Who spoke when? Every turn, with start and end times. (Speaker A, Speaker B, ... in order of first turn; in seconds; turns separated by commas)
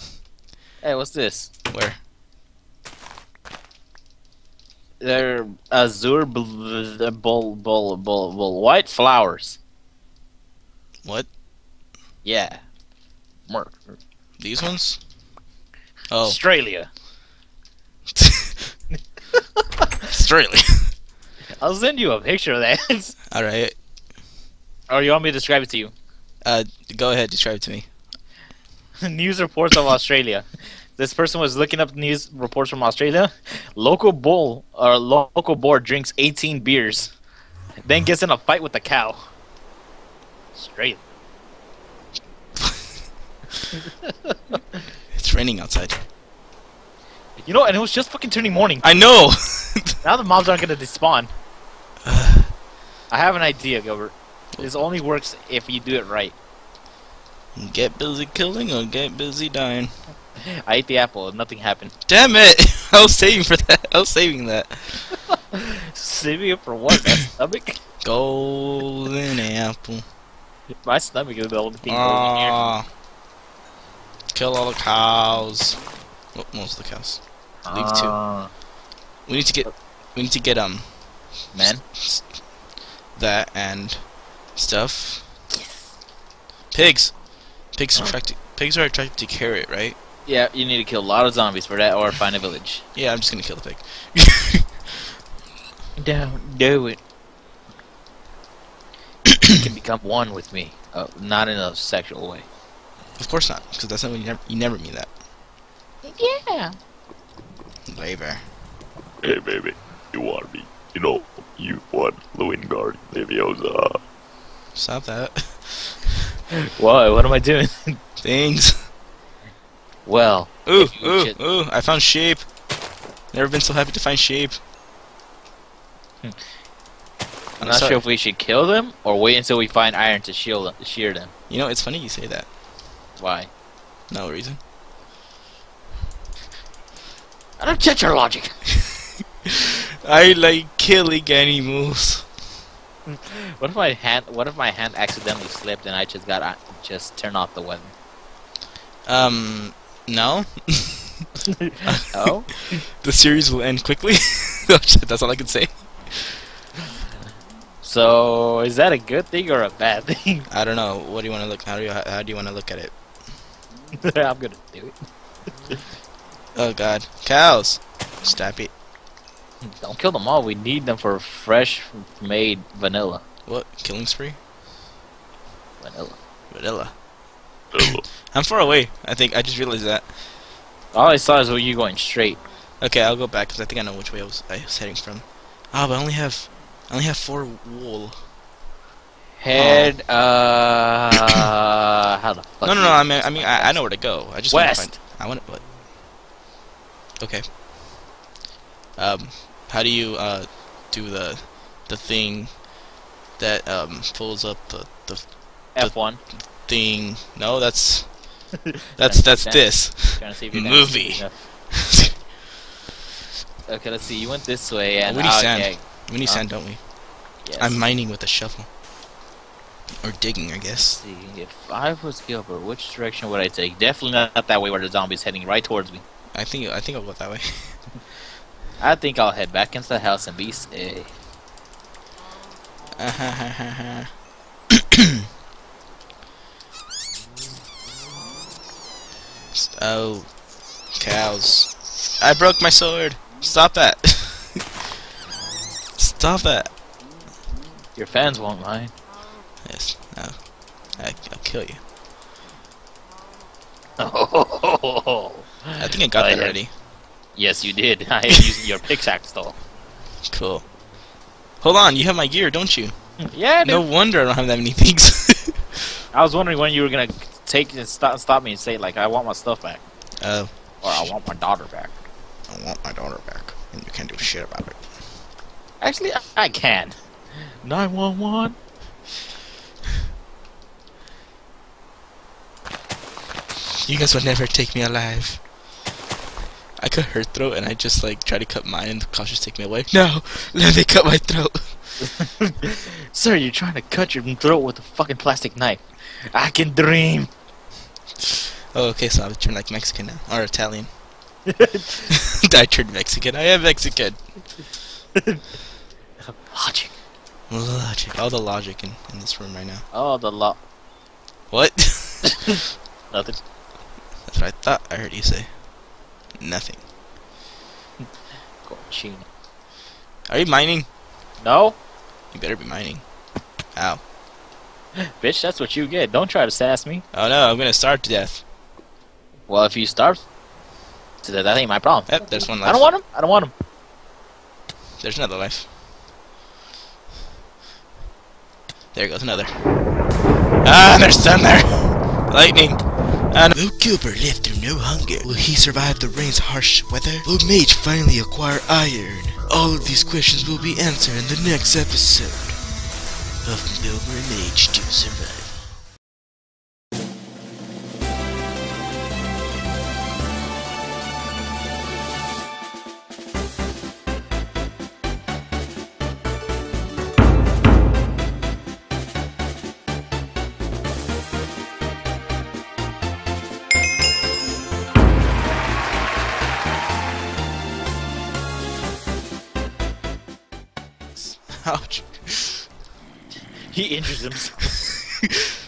Speaker A: 0.8-1.5, Speaker B: 1.7-1.9, Speaker A: 5.0-9.6, Speaker A: 12.2-12.6, Speaker A: 13.5-13.9, Speaker B: 14.4-15.0, Speaker B: 16.1-16.4, Speaker A: 16.2-16.9, Speaker B: 18.1-18.7, Speaker A: 19.3-19.9, Speaker B: 20.1-20.9, Speaker A: 21.6-23.1, Speaker B: 23.3-23.7, Speaker A: 24.9-25.9, Speaker B: 26.4-27.9, Speaker A: 29.0-30.4, Speaker A: 31.0-37.1, Speaker A: 37.8-39.2, Speaker A: 40.5-41.0, Speaker A: 43.7-44.6, Speaker B: 45.1-46.0, Speaker A: 47.4-49.0, Speaker B: 48.8-50.0, Speaker A: 50.0-51.3, Speaker B: 52.0-52.5, Speaker A: 53.1-56.4, Speaker B: 54.5-54.8, Speaker B: 57.5-59.9, Speaker A: 60.5-61.9, Speaker B: 62.1-65.2, Speaker A: 65.5-67.8, Speaker B: 68.0-70.0, Speaker A: 70.8-72.6, Speaker B: 71.9-72.8, Speaker B: 74.3-75.8, Speaker B: 76.3-78.1, Speaker A: 77.6-78.5, Speaker B: 79.3-80.9, Speaker A: 81.5-81.8, Speaker B: 81.6-82.2, Speaker B: 83.1-85.3, Speaker A: 85.5-85.9, Speaker B: 86.7-87.2, Speaker B: 87.7-90.0, Speaker A: 90.2-92.8, Speaker B: 92.9-94.7, Speaker A: 96.0-97.0, Speaker A: 99.4-102.5, Speaker B: 103.2-105.1, Speaker A: 106.0-106.7, Speaker B: 107.9-108.4, Speaker C: 109.2-114.0, Speaker B: 114.7-116.1, Speaker A: 116.7-118.0, Speaker B: 118.2-118.7, Speaker A: 120.0-121.3, Speaker B: 120.7-122.4, Speaker B: 123.3-124.6, Speaker B: 127.6-128.0, Speaker A: 127.6-131.3, Speaker B: 131.5-132.5, Speaker A: 133.2-133.5, Speaker B: 134.1-134.6, Speaker A: 137.6-138.6, Speaker B: 139.4-142.3, Speaker A: 143.1-147.9, Speaker B: 149.1-151.2, Speaker A: 151.5-152.5, Speaker B: 151.8-156.4, Speaker A: 157.8-160.4, Speaker B: 160.5-162.9, Speaker A: 164.0-164.9, Speaker B: 166.6-168.7, Speaker A: 169.6-173.2, Speaker B: 173.4-174.4, Speaker A: 175.8-176.2, Speaker B: 176.5-176.9, Speaker C: 177.7-178.0, Speaker B: 177.8-180.1, Speaker A: 180.9-182.4, Speaker B: 182.8-188.2, Speaker A: 189.4-193.8, Speaker B: 189.5-189.9, Speaker B: 192.6-195.6, Speaker A: 194.5-194.9, Speaker B: 199.0-202.6, Speaker B: 203.4-208.2, Speaker A: 205.7-206.2, Speaker B: 209.0-212.1, Speaker A: 209.0-211.4, Speaker A: 213.7-216.4, Speaker B: 215.0-216.8, Speaker A: 217.4-217.8, Speaker B: 217.6-218.7, Speaker B: 220.0-221.0, Speaker A: 220.8-226.0, Speaker B: 226.3-227.8, Speaker A: 228.8-231.1, Speaker B: 232.9-234.1, Speaker B: 234.7-235.2, Speaker B: 239.5-240.3, Speaker B: 240.9-244.7, Speaker B: 246.0-246.7, Speaker A: 248.0-248.9, Speaker B: 249.6-250.4, Speaker B: 250.9-251.8, Speaker A: 254.0-256.6, Speaker B: 255.8-256.7, Speaker A: 257.3-259.6, Speaker B: 260.3-260.6, Speaker B: 261.6-262.9, Speaker A: 263.2-263.8, Speaker B: 263.6-265.8, Speaker A: 266.1-269.8, Speaker B: 270.2-271.1, Speaker A: 270.8-271.9, Speaker B: 272.5-274.9, Speaker A: 275.8-278.6, Speaker B: 283.8-285.4, Speaker B: 286.8-292.1, Speaker A: 292.0-297.3, Speaker B: 298.7-300.9, Speaker A: 301.4-302.1, Speaker B: 302.1-304.2, Speaker A: 305.1-305.4, Speaker A: 306.2-306.9, Speaker B: 307.5-309.8, Speaker A: 309.9-310.6, Speaker B: 311.5-312.4, Speaker A: 312.2-313.4, Speaker B: 314.3-315.5, Speaker B: 316.4-316.8, Speaker A: 318.6-319.3, Speaker B: 320.3-320.9, Speaker A: 321.4-321.8, Speaker B: 322.3-323.0, Speaker B: 323.7-324.0, Speaker A: 325.0-327.0, Speaker B: 327.1-328.4, Speaker A: 329.5-330.2, Speaker A: 331.2-332.1, Speaker B: 332.1-332.9, Speaker A: 332.6-333.5, Speaker B: 335.0-335.7, Speaker B: 338.9-339.6, Speaker B: 340.6-352.6, Speaker B: 353.4-355.6, Speaker B: 381.2-382.6, Speaker A: 383.7-384.6